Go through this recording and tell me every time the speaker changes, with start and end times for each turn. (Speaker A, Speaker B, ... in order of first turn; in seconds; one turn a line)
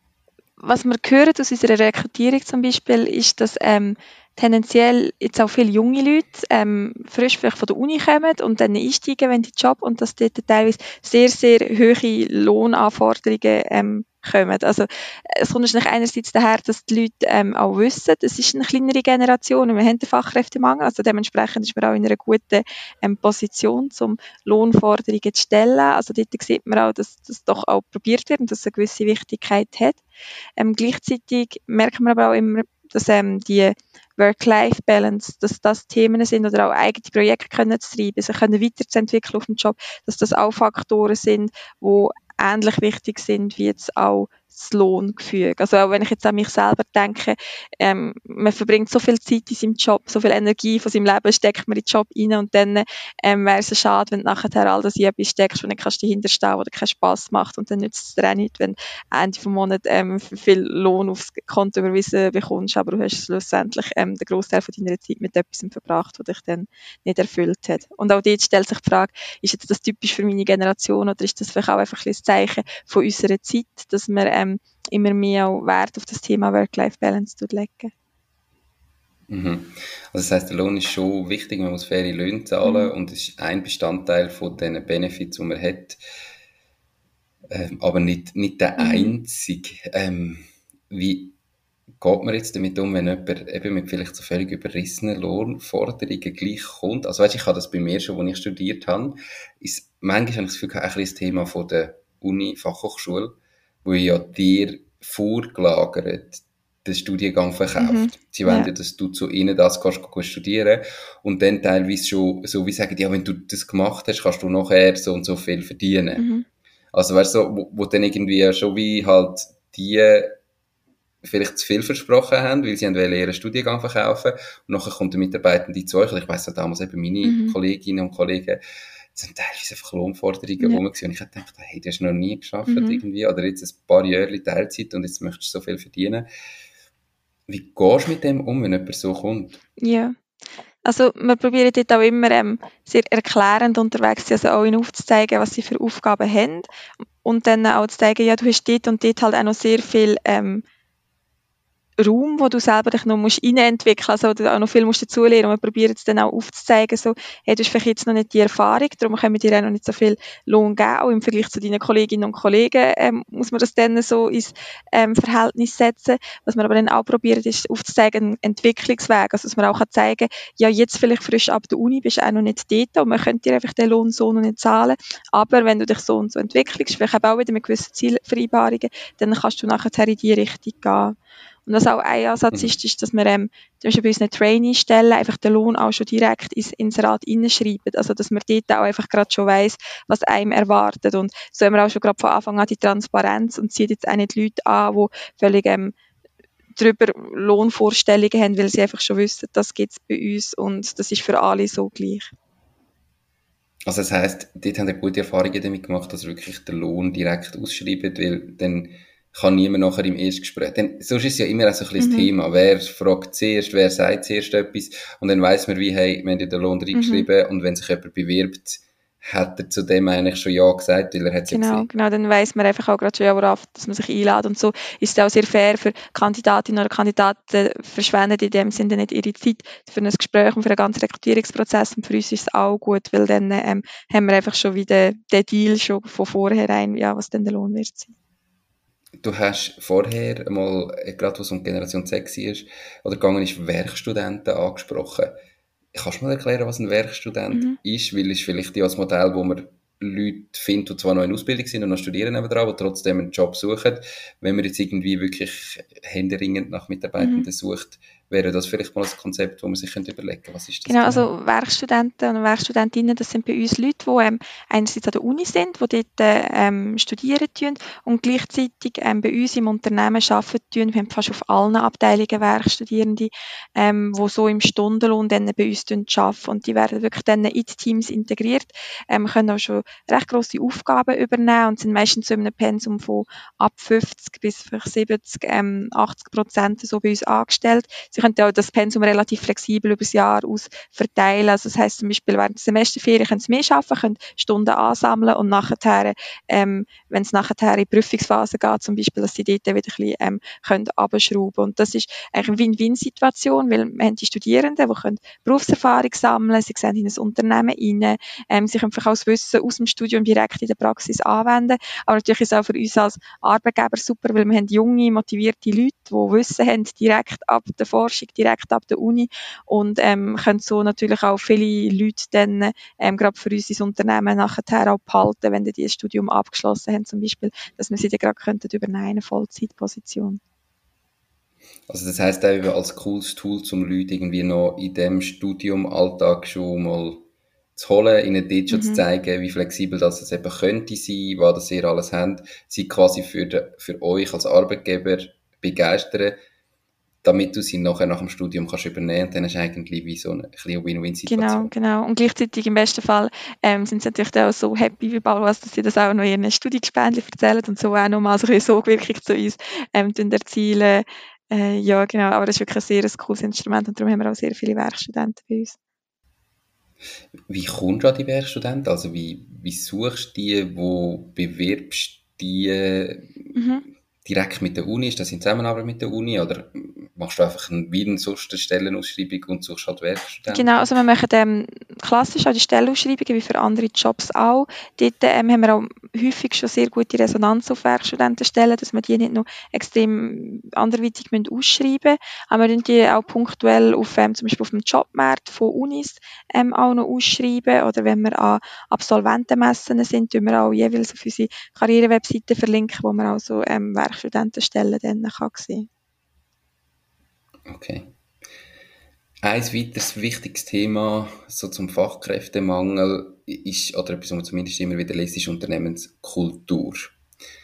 Speaker A: 0.6-30.0
Speaker A: 30.6-77.9
Speaker B: 79.3-86.0
Speaker A: 82.6-82.9
Speaker B: 87.5-91.3
Speaker A: 88.8-89.1
Speaker B: 92.0-116.3
Speaker A: 107.8-108.7
Speaker A: 116.2-116.5
Speaker B: 116.9-120.3
Speaker B: 121.2-128.6
Speaker A: 127.2-127.5
Speaker B: 129.1-136.3
Speaker A: 132.7-133.0
Speaker B: 137.5-139.6
Speaker A: 139.8-140.2
Speaker A: 140.8-150.6
Speaker A: 152.0-195.9
Speaker A: 196.8-202.3
Speaker B: 203.9-221.9
Speaker A: 212.0-212.3
Speaker A: 216.9-217.2
Speaker A: 221.5-238.1
Speaker B: 239.2-245.3
Speaker B: 245.9-261.3
Speaker A: 247.5-247.8
Speaker A: 257.2-257.5
Speaker A: 260.9-330.4
Speaker B: 331.9-346.4
Speaker A: 338.7-339.0
Speaker B: 347.2-351.7
Speaker A: 351.3-365.8
Speaker B: 367.5-373.6
Speaker A: 373.6-373.8
Speaker B: 374.2-380.9
Speaker A: 380.5-405.9
Speaker B: 407.7-408.1
Speaker B: 409.4-417.2